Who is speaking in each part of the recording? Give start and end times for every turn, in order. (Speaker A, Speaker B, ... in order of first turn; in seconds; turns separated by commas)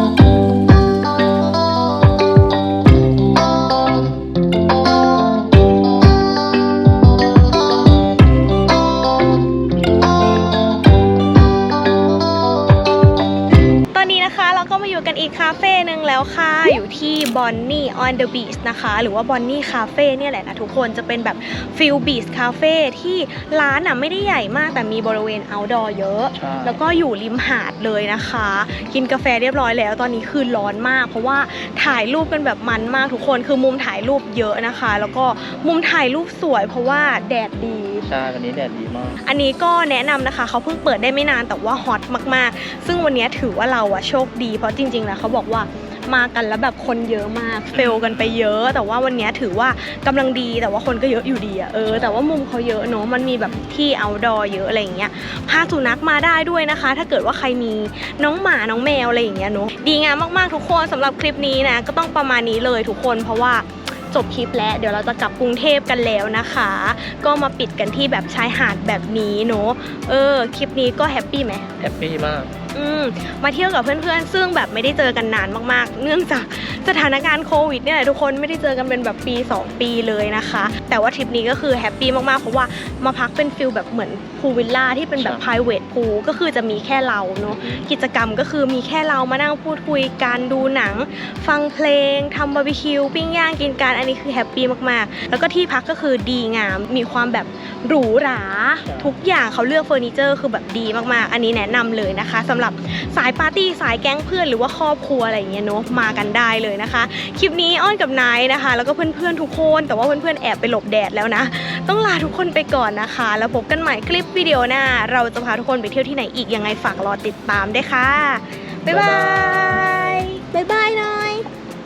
Speaker A: 13.9-38.1, Speaker B: 26.4-26.8, Speaker B: 38.0-39.2, Speaker A: 39.2-71.7, Speaker B: 47.7-48.1, Speaker B: 71.8-72.5, Speaker A: 72.7-121.3, Speaker B: 85.1-85.5, Speaker B: 87.4-87.9, Speaker B: 118.9-120.2